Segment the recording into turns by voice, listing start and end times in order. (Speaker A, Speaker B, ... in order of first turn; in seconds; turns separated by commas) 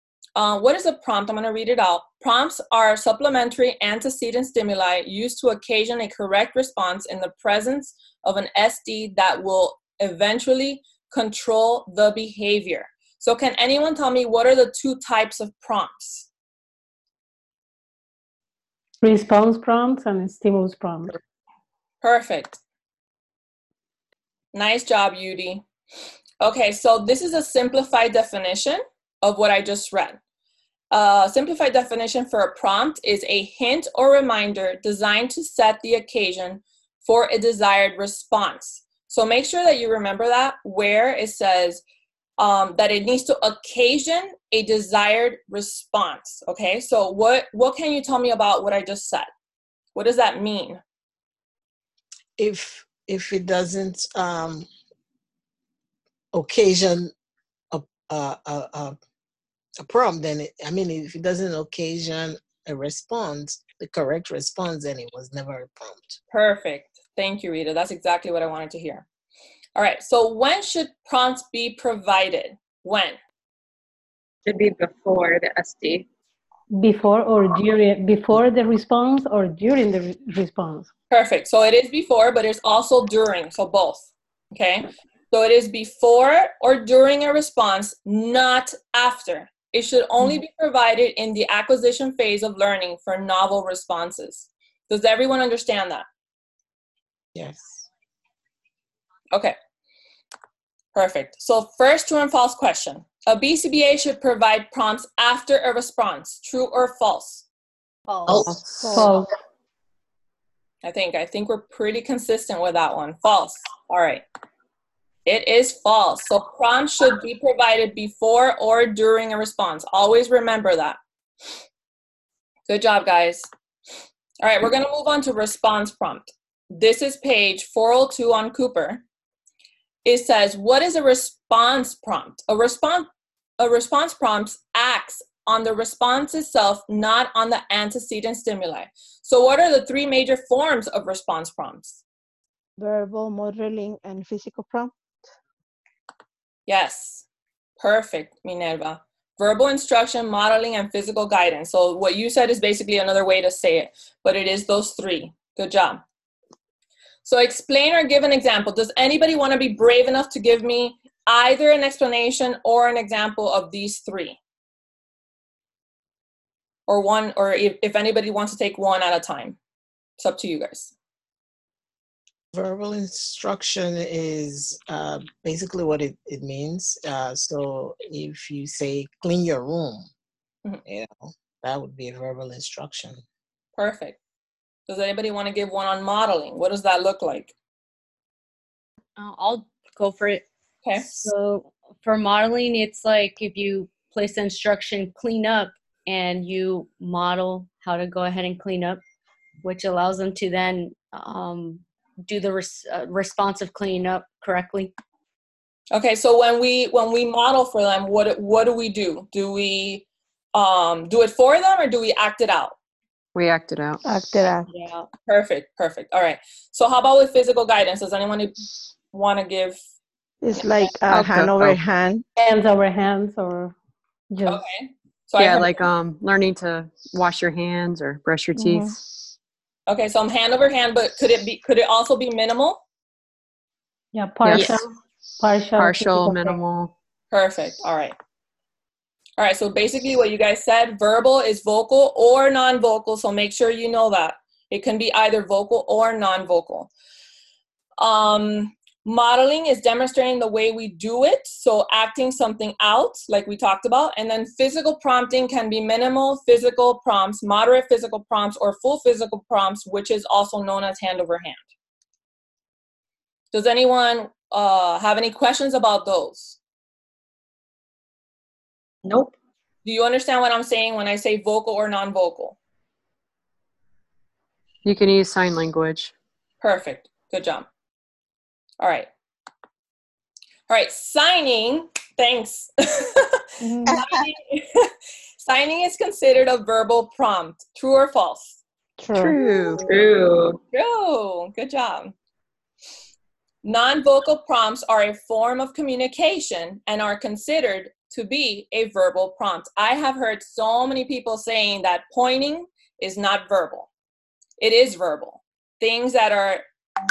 Speaker A: 0.3-16.3, Speaker B: 19.0-21.2, Speaker A: 22.0-22.6, Speaker A: 24.5-25.6, Speaker A: 26.4-30.2, Speaker A: 30.9-41.8, Speaker A: 42.4-49.3, Speaker A: 49.9-50.8, Speaker C: 52.4-54.7, Speaker C: 56.3-57.1, Speaker C: 57.7-59.0, Speaker C: 59.8-66.2, Speaker A: 66.3-69.0, Speaker A: 69.8-73.2, Speaker D: 74.5-76.0, Speaker B: 76.7-80.9, Speaker A: 81.1-96.0, Speaker C: 97.3-97.8, Speaker A: 100.9-107.4, Speaker E: 108.1-109.1, Speaker F: 108.3-109.1, Speaker G: 108.8-109.1, Speaker B: 108.9-109.3, Speaker A: 110.8-114.2, Speaker A: 115.2-121.0, Speaker A: 122.7-123.5, Speaker A: 124.4-129.0, Speaker A: 130.0-133.1, Speaker A: 133.6-142.0, Speaker G: 142.8-144.9, Speaker A: 146.7-147.2, Speaker A: 147.8-156.0, Speaker A: 157.2-164.4, Speaker A: 166.9-169.6, Speaker A: 170.2-170.9, Speaker C: 172.5-180.1, Speaker C: 180.8-183.2, Speaker A: 183.8-184.2, Speaker A: 184.9-187.5, Speaker E: 189.2-190.4, Speaker A: 190.8-191.3, Speaker E: 191.0-199.0, Speaker E: 199.6-204.9, Speaker A: 205.9-212.7, Speaker F: 213.3-214.0, Speaker G: 214.0-214.7, Speaker A: 215.2-218.6, Speaker A: 219.1-219.8, Speaker G: 220.4-222.2, Speaker F: 221.1-221.8, Speaker B: 222.4-223.7, Speaker B: 224.3-224.6, Speaker A: 224.4-225.8, Speaker F: 225.4-229.0, Speaker G: 228.5-228.9, Speaker A: 229.9-232.8, Speaker B: 234.1-236.6, Speaker F: 234.4-234.8, Speaker C: 234.5-234.8, Speaker F: 235.8-236.9, Speaker A: 237.3-238.1, Speaker A: 239.4-246.9, Speaker A: 248.0-261.6, Speaker A: 263.5-266.6, Speaker D: 269.0-269.3, Speaker A: 269.8-272.6, Speaker F: 274.8-276.1, Speaker A: 276.6-277.7, Speaker A: 278.8-279.1, Speaker A: 280.7-288.6, Speaker G: 283.6-284.0, Speaker G: 289.0-289.4, Speaker F: 289.1-289.9, Speaker D: 289.8-290.6, Speaker A: 290.7-292.1, Speaker A: 293.6-303.9, Speaker A: 304.6-306.6